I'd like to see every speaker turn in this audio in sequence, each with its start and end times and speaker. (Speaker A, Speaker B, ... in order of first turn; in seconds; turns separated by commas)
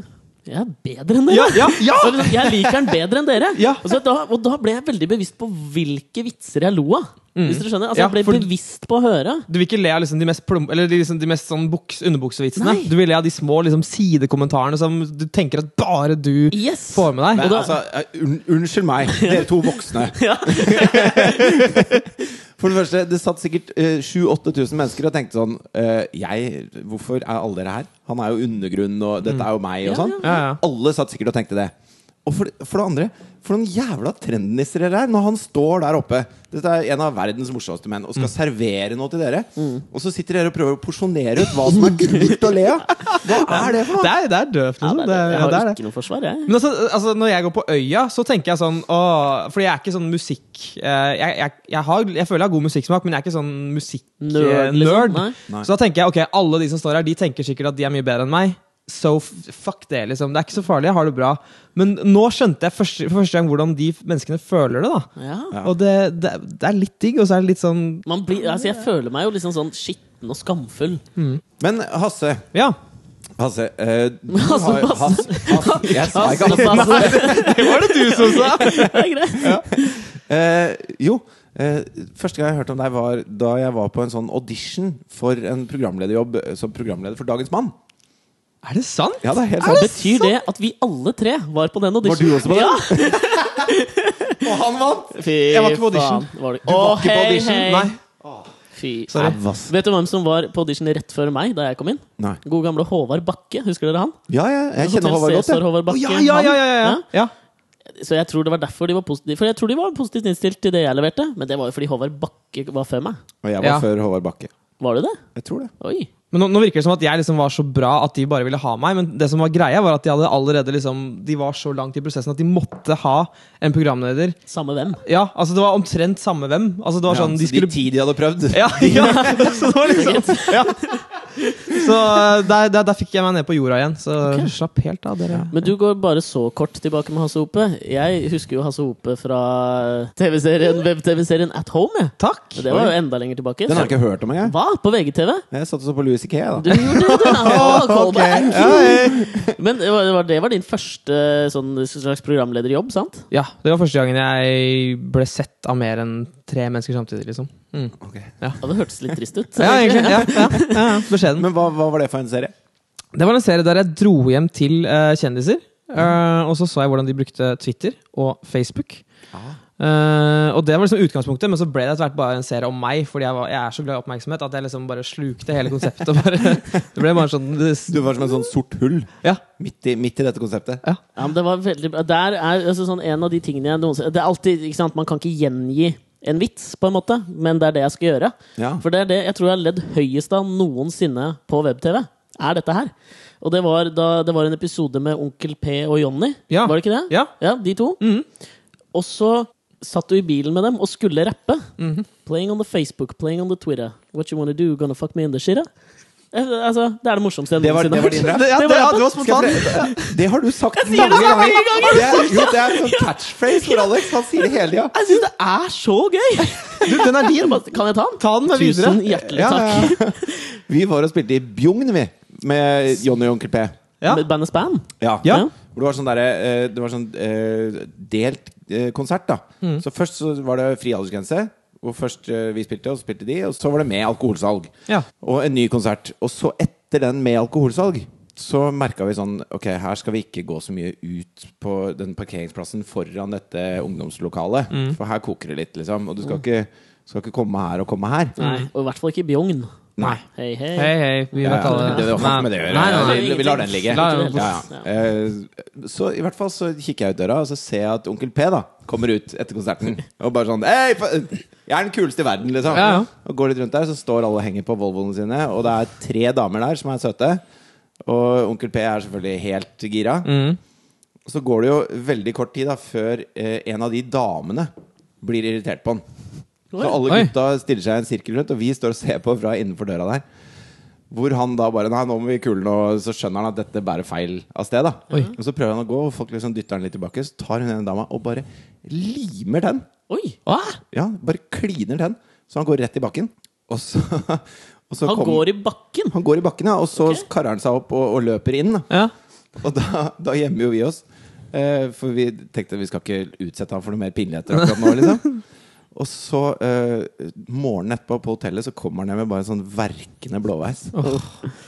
Speaker A: 0.5-9.5, Speaker B: 1.3-2.9, Speaker B: 3.5-3.9, Speaker B: 7.3-8.5, Speaker B: 9.5-17.5, Speaker A: 12.6-12.9, Speaker A: 16.5-17.7, Speaker C: 17.3-31.7, Speaker A: 19.1-21.8, Speaker A: 29.8-30.4, Speaker B: 30.2-30.6, Speaker C: 32.2-44.1, Speaker A: 39.6-39.8, Speaker B: 43.0-45.8, Speaker A: 44.8-46.5, Speaker B: 46.5-65.1, Speaker A: 54.2-55.4, Speaker A: 65.2-65.5, Speaker C: 65.5-65.8, Speaker B: 65.6-68.0, Speaker A: 68.0-71.0, Speaker B: 71.2-71.4, Speaker C: 71.6-72.5, Speaker C: 73.4-77.4, Speaker A: 74.3-80.1, Speaker B: 76.2-79.7, Speaker C: 80.2-87.8, Speaker B: 88.6-90.3, Speaker C: 89.2-90.0, Speaker A: 89.6-94.4, Speaker C: 92.0-93.7, Speaker C: 94.4-95.2, Speaker A: 95.1-97.9, Speaker B: 95.5-96.3, Speaker C: 96.7-97.7, Speaker B: 97.6-98.0, Speaker C: 98.2-98.5, Speaker A: 98.7-104.2, Speaker B: 99.1-99.4, Speaker C: 99.1-99.7, Speaker C: 104.3-105.6, Speaker A: 104.8-107.0, Speaker B: 105.9-107.3, Speaker A: 107.9-113.2, Speaker C: 113.4-114.5, Speaker B: 113.6-113.8, Speaker A: 114.8-115.2, Speaker C: 115.3-115.7, Speaker A: 115.8-116.1, Speaker B: 116.3-124.4, Speaker A: 124.5-125.0, Speaker B: 125.0-127.8, Speaker C: 127.1-129.3, Speaker B: 128.5-130.8, Speaker A: 128.8-131.8, Speaker B: 131.7-135.5, Speaker A: 134.2-134.5, Speaker A: 135.5-145.4, Speaker B: 142.2-142.6, Speaker C: 142.7-142.9, Speaker C: 143.7-144.6, Speaker C: 145.5-149.5, Speaker A: 146.6-153.3, Speaker B: 146.9-149.3, Speaker B: 153.3-158.6, Speaker C: 158.0-158.3, Speaker A: 158.6-161.0, Speaker B: 159.6-161.5, Speaker C: 161.2-162.5, Speaker B: 163.1-169.0, Speaker C: 169.3-169.6, Speaker B: 169.8-178.0, Speaker C: 177.9-180.8, Speaker A: 181.1-198.0, Speaker C: 188.6-188.8, Speaker B: 196.5-197.3, Speaker B: 198.0-198.2, Speaker A: 198.9-201.7, Speaker B: 201.8-202.1, Speaker A: 202.2-205.7, Speaker A: 206.3-210.1, Speaker C: 207.6-208.6, Speaker B: 208.1-209.9, Speaker C: 209.2-214.9, Speaker A: 210.8-214.2, Speaker B: 210.9-212.2, Speaker A: 214.9-220.6, Speaker B: 216.8-217.7, Speaker B: 218.2-219.9, Speaker C: 219.4-223.8, Speaker A: 224.1-225.5, Speaker C: 225.0-248.3, Speaker B: 244.7-245.0, Speaker A: 248.4-254.9, Speaker B: 248.4-248.7, Speaker B: 250.8-254.6, Speaker C: 251.4-267.4, Speaker B: 262.7-263.1, Speaker C: 268.0-270.3, Speaker B: 270.2-270.6, Speaker C: 271.2-276.0, Speaker A: 276.7-277.0, Speaker C: 276.8-280.2, Speaker C: 281.1-289.9, Speaker A: 290.1-290.4, Speaker B: 290.4-290.8, Speaker C: 290.9-295.5, Speaker A: 295.0-296.1, Speaker C: 296.1-299.0, Speaker A: 297.0-297.2, Speaker C: 299.6-305.4, Speaker C: 305.9-311.0, Speaker B: 311.0-311.3